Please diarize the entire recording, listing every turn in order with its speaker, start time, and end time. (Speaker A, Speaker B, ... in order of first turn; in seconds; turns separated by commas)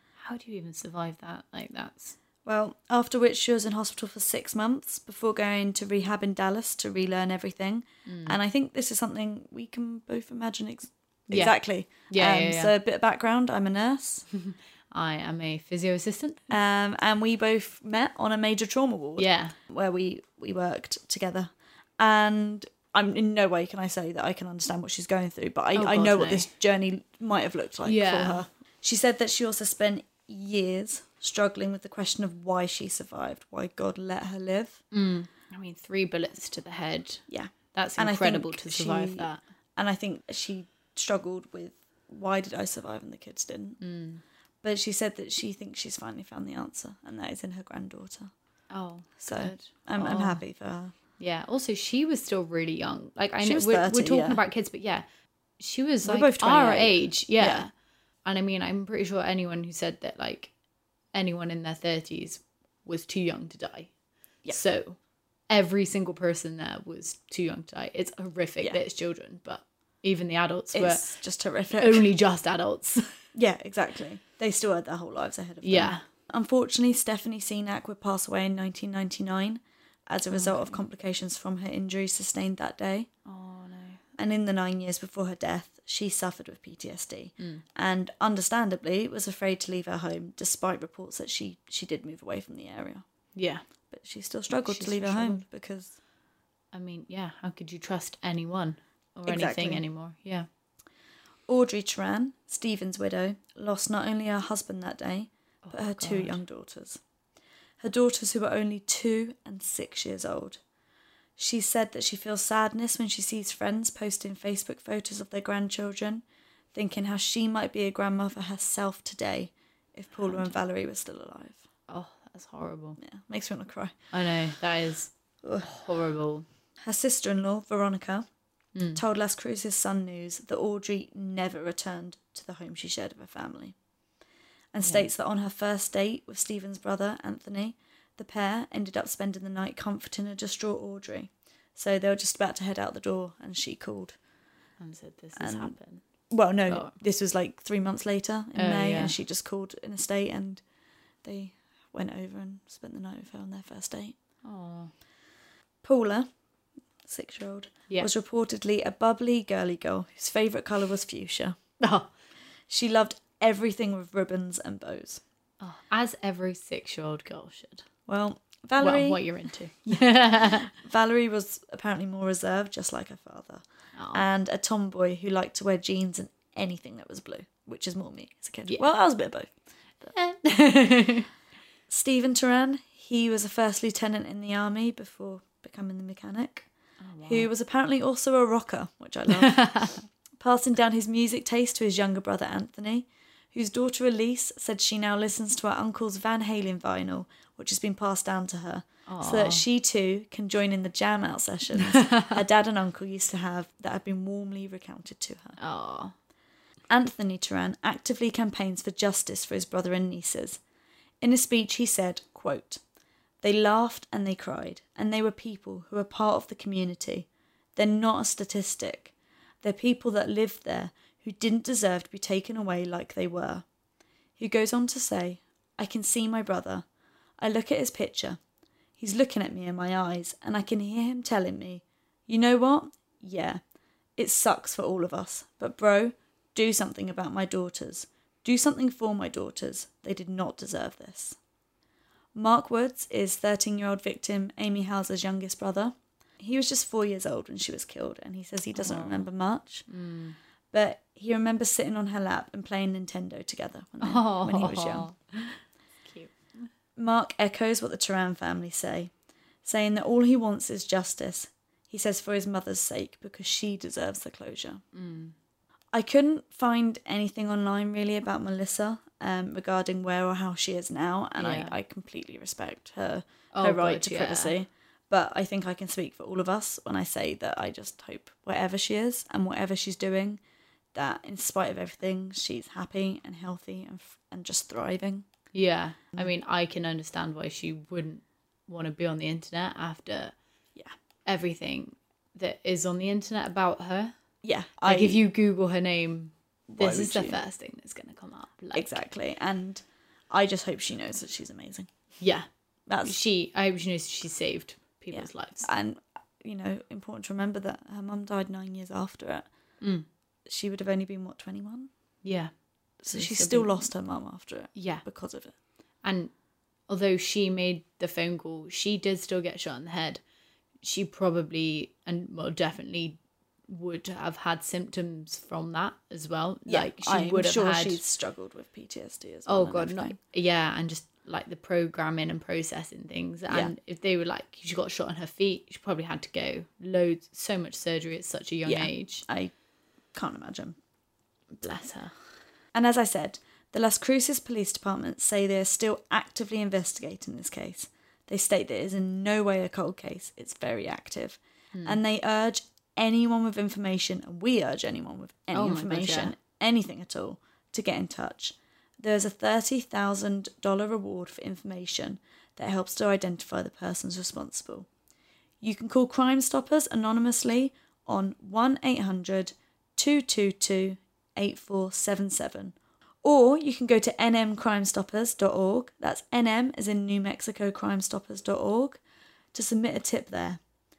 Speaker A: 0.2-2.1, Speaker B: 2.4-14.2, Speaker A: 8.1-8.4, Speaker A: 11.3-12.7, Speaker A: 14.3-16.5, Speaker B: 16.5-34.8, Speaker A: 19.2-19.6, Speaker A: 25.7-26.5, Speaker A: 27.8-28.4, Speaker A: 34.9-39.4, Speaker B: 37.3-43.8, Speaker A: 43.8-44.2, Speaker B: 44.6-48.3, Speaker A: 48.7-50.4, Speaker B: 49.2-50.9, Speaker A: 51.2-55.0, Speaker B: 53.4-54.4, Speaker A: 55.6-57.7, Speaker B: 56.0-57.6, Speaker A: 58.2-60.5, Speaker A: 61.1-63.9, Speaker A: 64.5-65.0, Speaker A: 65.5-71.1, Speaker B: 70.7-72.0, Speaker A: 71.8-73.1, Speaker B: 73.3-83.1, Speaker A: 75.6-76.0, Speaker A: 80.3-80.8, Speaker A: 83.2-84.0, Speaker B: 84.2-93.0, Speaker A: 87.4-87.6, Speaker A: 93.3-93.6, Speaker B: 93.9-95.9, Speaker A: 94.5-95.4, Speaker A: 96.7-100.5, Speaker B: 99.3-99.8, Speaker B: 101.5-107.0, Speaker A: 105.6-106.4, Speaker B: 107.8-110.6, Speaker B: 111.4-121.6, Speaker A: 121.9-123.0, Speaker B: 123.0-123.9, Speaker A: 124.1-125.1, Speaker B: 125.4-125.7, Speaker A: 125.6-126.5, Speaker B: 126.8-128.3, Speaker A: 128.7-129.0, Speaker B: 128.9-133.7, Speaker B: 134.7-144.2, Speaker A: 144.8-146.0, Speaker B: 145.3-145.8, Speaker B: 146.3-150.6, Speaker A: 146.7-146.9, Speaker A: 148.6-149.1, Speaker B: 151.2-154.2, Speaker A: 154.4-154.9, Speaker B: 155.8-156.3, Speaker B: 157.0-161.6, Speaker A: 161.8-162.1, Speaker B: 162.7-165.2, Speaker A: 165.6-167.8, Speaker B: 168.1-169.2, Speaker A: 168.8-170.7, Speaker B: 169.8-180.1, Speaker A: 173.9-174.2, Speaker A: 180.1-181.3, Speaker B: 181.9-186.7, Speaker A: 187.0-187.5, Speaker B: 187.2-189.7, Speaker A: 189.4-190.0, Speaker B: 190.4-205.6, Speaker A: 199.1-199.6, Speaker A: 201.8-202.3, Speaker A: 205.6-206.1, Speaker B: 206.9-210.6, Speaker B: 211.2-212.8, Speaker B: 213.4-223.6, Speaker B: 224.4-226.8, Speaker B: 227.4-228.4, Speaker B: 229.0-233.6, Speaker B: 234.2-241.4, Speaker B: 242.3-249.9, Speaker A: 248.7-249.2, Speaker A: 249.9-250.3, Speaker B: 250.7-255.1, Speaker A: 254.0-256.7, Speaker B: 257.0-259.1, Speaker B: 259.6-264.8, Speaker A: 264.9-265.3, Speaker B: 265.9-280.4, Speaker A: 271.4-271.8, Speaker A: 273.5-274.5, Speaker B: 280.9-285.2, Speaker A: 285.5-290.3, Speaker A: 291.2-294.1, Speaker B: 294.4-295.2, Speaker A: 294.8-299.0, Speaker B: 296.7-297.4, Speaker B: 298.7-301.9, Speaker A: 302.2-302.5, Speaker B: 302.9-303.1, Speaker A: 303.0-305.7, Speaker B: 305.1-309.5, Speaker A: 309.8-310.1, Speaker B: 310.5-311.9, Speaker A: 312.2-312.5, Speaker B: 313.0-315.5, Speaker A: 313.1-313.9, Speaker A: 314.7-315.0, Speaker A: 316.0-316.3, Speaker A: 316.9-320.2, Speaker A: 320.8-323.2, Speaker A: 323.7-328.0, Speaker B: 326.7-330.1, Speaker A: 329.5-339.2, Speaker B: 338.6-339.5, Speaker B: 340.1-340.8, Speaker A: 341.6-342.1, Speaker B: 342.7-364.9, Speaker A: 351.7-352.0, Speaker A: 355.5-356.3, Speaker B: 365.6-379.0, Speaker B: 379.5-380.6